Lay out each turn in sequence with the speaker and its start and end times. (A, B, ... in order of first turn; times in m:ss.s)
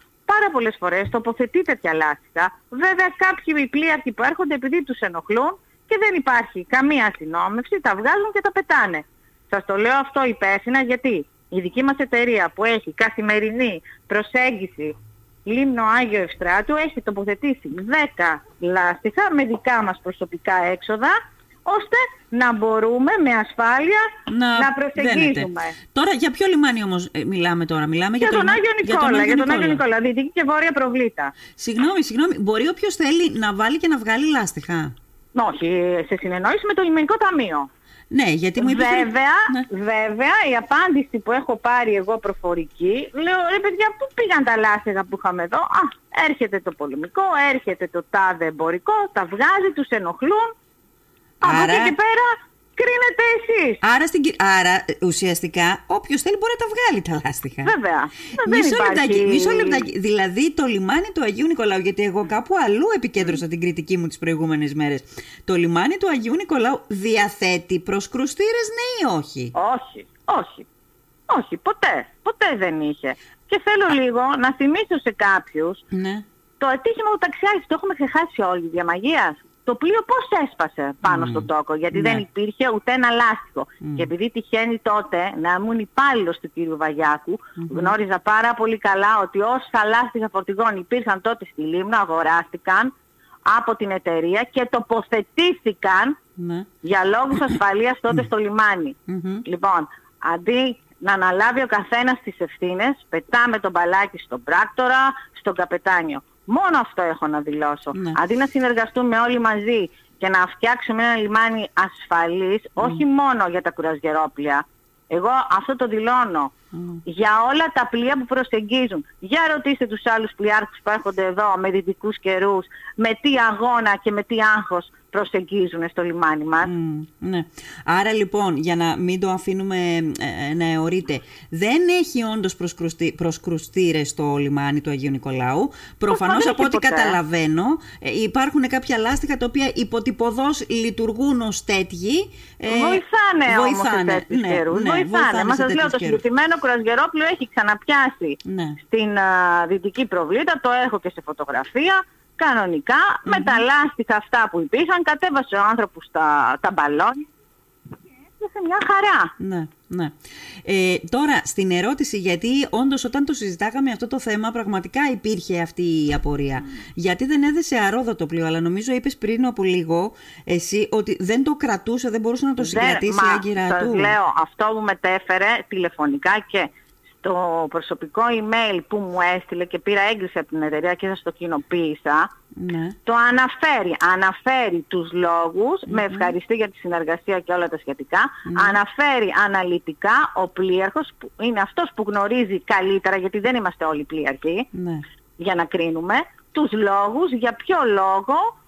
0:00.3-0:14.9 A
0:15.4-0:25.8 A
0:24.3-0:29.8 B
0:28.2-0:31.3 A
0:31.6-0:34.9 B
0:35.3-0:37.7 A
0:38.1-0:39.6 B
0:38.6-0:50.5 A
0:51.4-0:53.8 A
0:51.4-0:51.9 B
0:53.8-0:57.7 B
0:57.6-0:59.9 A
0:58.3-1:09.5 B
1:09.5-1:10.7 A
1:11.3-1:15.8 A
1:15.9-1:16.2 B
1:16.6-1:32.9 A
1:21.0-1:22.2 B
1:27.6-1:27.9 B
1:33.5-1:36.2 A
1:36.4-1:36.7 B
1:36.8-1:56.5 A
1:39.1-1:39.4 B
1:47.9-1:48.2 B
1:56.7-1:57.0 B
1:57.0-2:06.7 A
2:06.6-2:26.2 B
2:16.1-2:17.2 A
2:22.7-2:37.2 A
2:28.4-2:28.8 B
2:33.2-2:33.6 B
2:38.4-2:39.3 A
2:39.4-2:54.1 B
2:52.6-2:56.7 A
2:57.2-3:02.3 A
3:02.6-3:03.0 B
3:03.0-3:14.7 A
3:05.9-3:06.3 B
3:08.4-3:08.8 B
3:14.7-3:15.0 B
3:15.4-3:18.5 A